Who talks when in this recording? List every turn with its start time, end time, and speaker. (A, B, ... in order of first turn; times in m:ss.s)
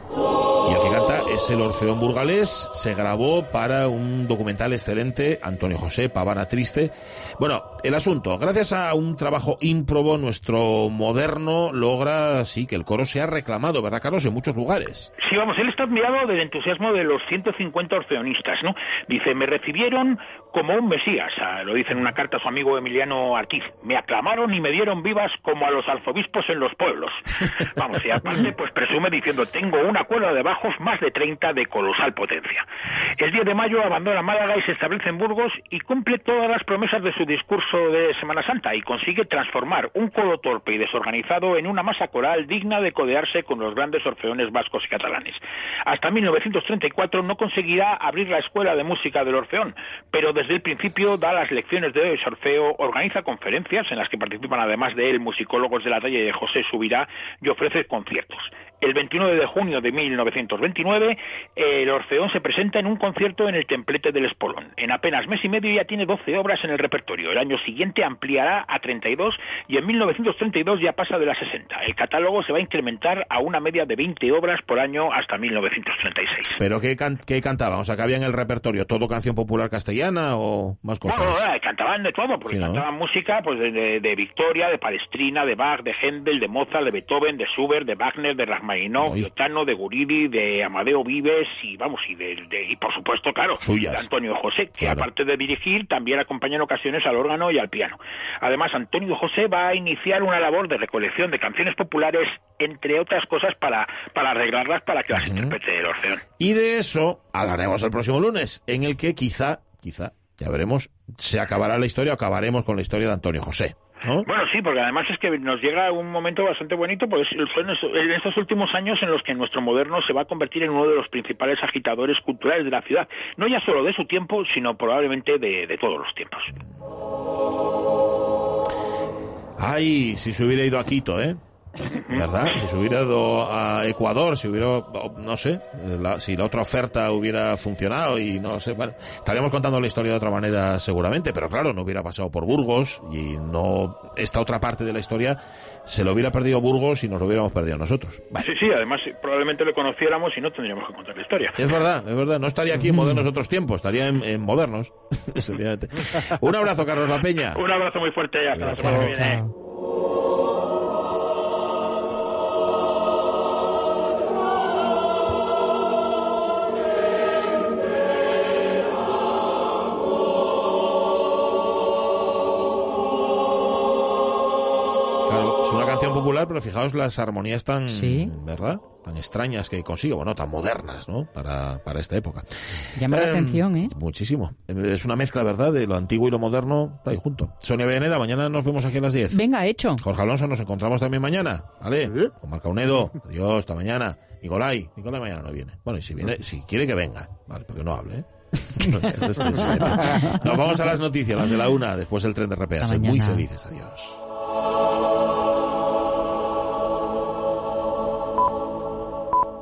0:00.6-0:15.1 A
0:15.2-1:16.6 B
1:16.6-1:21.5 A
1:21.0-1:46.2 B
1:22.5-1:22.8 A
1:29.0-1:29.3 A
1:33.6-1:34.1 A
1:34.8-1:35.1 A
1:45.1-1:45.5 A
1:46.4-1:54.3 A
1:54.2-2:06.5 B
2:09.6-2:11.4 A
2:11.8-2:12.2 B
2:12.1-2:28.5 A
2:28.4-2:31.6 B
2:31.6-2:37.6 A
2:32.9-2:33.2 C
2:37.5-2:39.4 B
2:38.6-2:38.9 A
2:38.8-2:39.5 C
2:55.2-3:02.4 A
2:57.9-2:58.3 C
3:03.0-3:03.9 C
3:03.0-3:09.4 A
3:09.3-3:10.0 C
3:10.0-3:24.2 A
3:22.8-3:23.4 C